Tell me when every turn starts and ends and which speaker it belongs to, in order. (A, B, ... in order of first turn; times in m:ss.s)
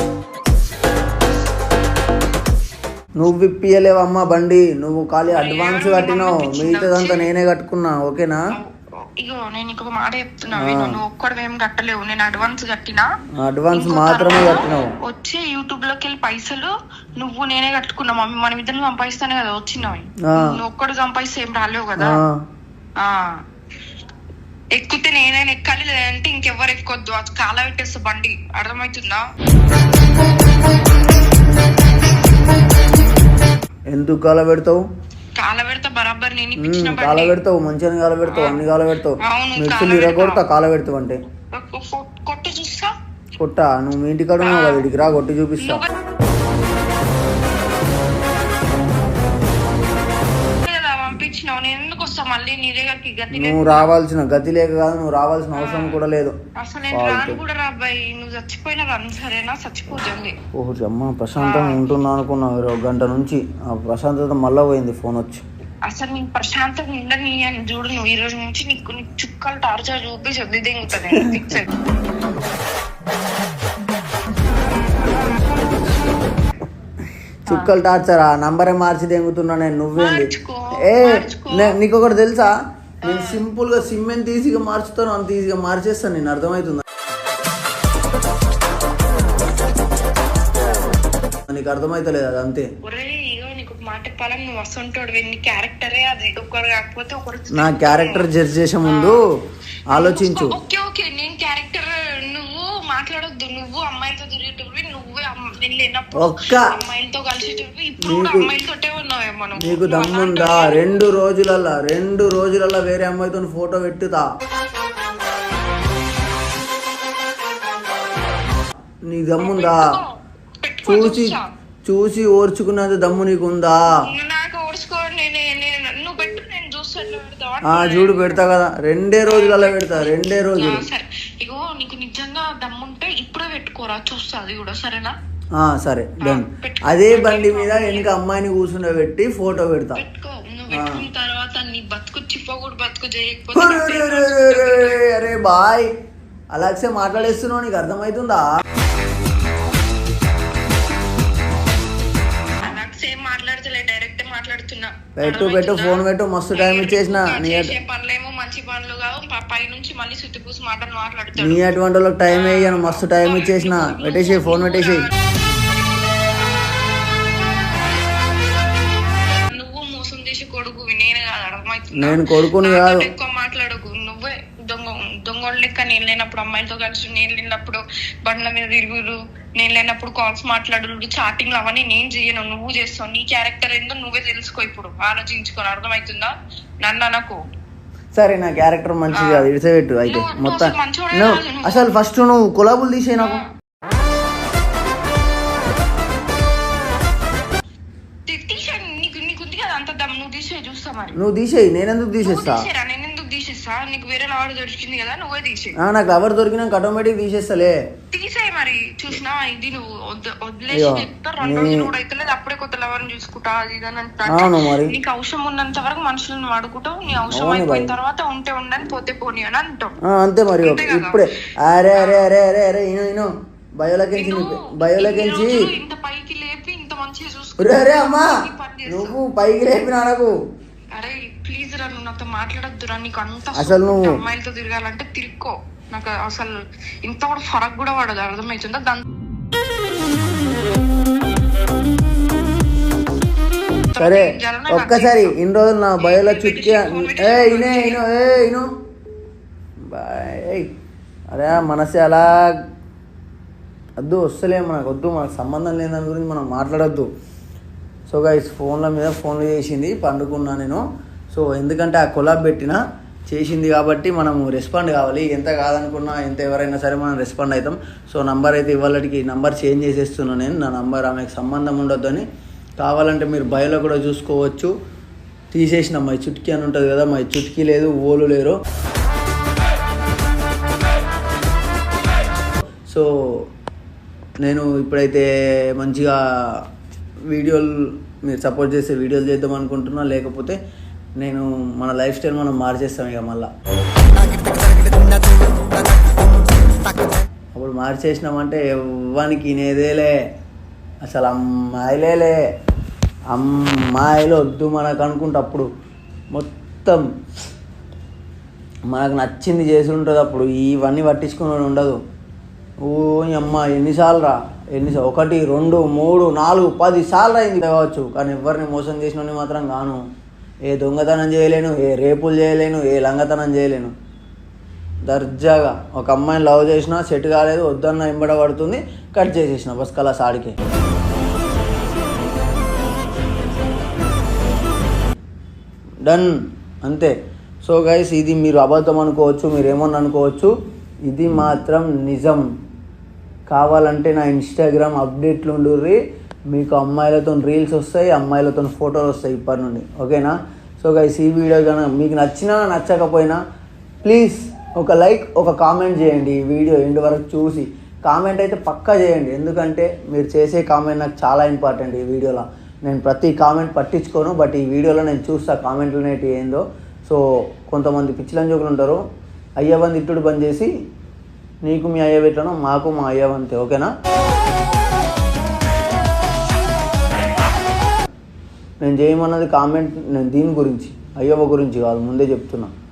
0:03.2-0:08.4 A
0:05.3-0:07.3 B
0:08.5-0:13.0 B
0:10.5-0:11.0 A
0:13.4-0:14.9 A
0:13.7-0:22.2 B
0:20.2-0:20.6 A
0:22.0-0:22.4 A
0:23.0-0:23.4 B
0:24.7-0:29.2 B
0:33.9-0:34.8 A
0:35.3-0:37.4 B
0:36.6-0:41.2 A
0:38.2-0:38.6 B
0:39.2-0:40.4 B
0:41.5-0:42.9 B
0:43.4-0:45.9 A
0:44.4-0:44.8 B
0:45.6-0:45.9 B
0:50.6-0:53.9 B
0:53.3-0:56.3 A
0:55.5-0:56.0 B
0:56.6-1:00.4 B
0:56.9-0:57.4 A
1:00.5-1:05.4 A
1:01.4-1:01.8 B
1:05.8-1:11.7 B
1:11.1-1:11.6 A
1:17.4-1:26.8 A
1:20.0-1:21.8 B
1:23.0-1:23.4 B
1:31.5-1:32.7 A
1:32.8-1:38.3 B
1:37.5-1:39.3 A
1:38.8-1:39.2 B
1:39.9-1:40.6 A
1:39.9-1:51.0 B
1:46.1-1:46.8 A
1:48.0-1:48.5 A
1:49.6-1:54.3 A
1:59.1-1:59.9 A
1:59.4-2:01.5 B
2:00.8-2:04.0 A
2:03.9-2:08.4 B
2:07.6-2:10.8 A
2:09.2-2:15.1 B
2:15.5-2:20.0 A
2:16.2-2:18.1 B
2:19.9-2:25.0 B
2:20.7-2:21.0 A
2:23.5-2:25.9 A
2:26.5-2:28.5 A
2:32.6-2:36.0 B
2:35.2-2:37.7 A
2:36.5-2:41.7 B
2:41.4-2:45.1 A
2:42.3-2:45.1 B
2:49.4-3:07.4 B
2:51.9-2:53.1 A
3:08.1-3:13.4 A
3:09.1-3:09.5 B
3:10.0-3:11.9 B
3:13.2-3:13.4 B
3:18.2-3:21.2 B
3:21.1-3:22.7 A
3:22.2-3:25.8 B
3:25.8-3:27.8 A
3:28.1-3:39.9 B
3:30.7-3:31.9 A
3:34.2-3:34.9 A
3:37.3-3:37.9 A
3:40.0-3:45.7 A
3:40.6-3:41.3 B
3:41.9-3:42.2 B
3:44.1-3:49.2 B
3:47.6-3:50.3 A
3:50.9-3:59.0 B
3:53.5-3:54.2 A
4:03.9-4:05.4 B
4:04.0-4:08.7 A
4:06.0-4:08.0 B
4:09.9-4:10.7 A
4:11.3-4:12.2 A
4:14.0-4:17.1 A
4:18.1-4:32.2 A
4:32.8-4:34.7 A
4:35.5-4:38.6 A
4:42.9-4:43.5 A
4:44.4-4:46.7 A
4:47.3-4:50.6 A
4:51.2-4:53.5 A
4:57.5-5:00.1 A
5:01.0-5:02.4 A
5:03.3-5:05.7 A
5:06.3-5:07.0 A
5:08.9-5:12.0 A
5:12.8-5:20.0 A
5:20.7-5:23.9 A
5:25.0-5:30.6 A
5:36.0-5:36.3 A
5:36.8-5:40.5 A
5:41.1-5:42.4 A
5:43.5-5:46.0 A
5:46.5-5:53.4 A
5:54.0-6:09.0 A
6:09.6-6:10.7 A
6:11.6-6:13.9 A
6:18.8-6:22.7 A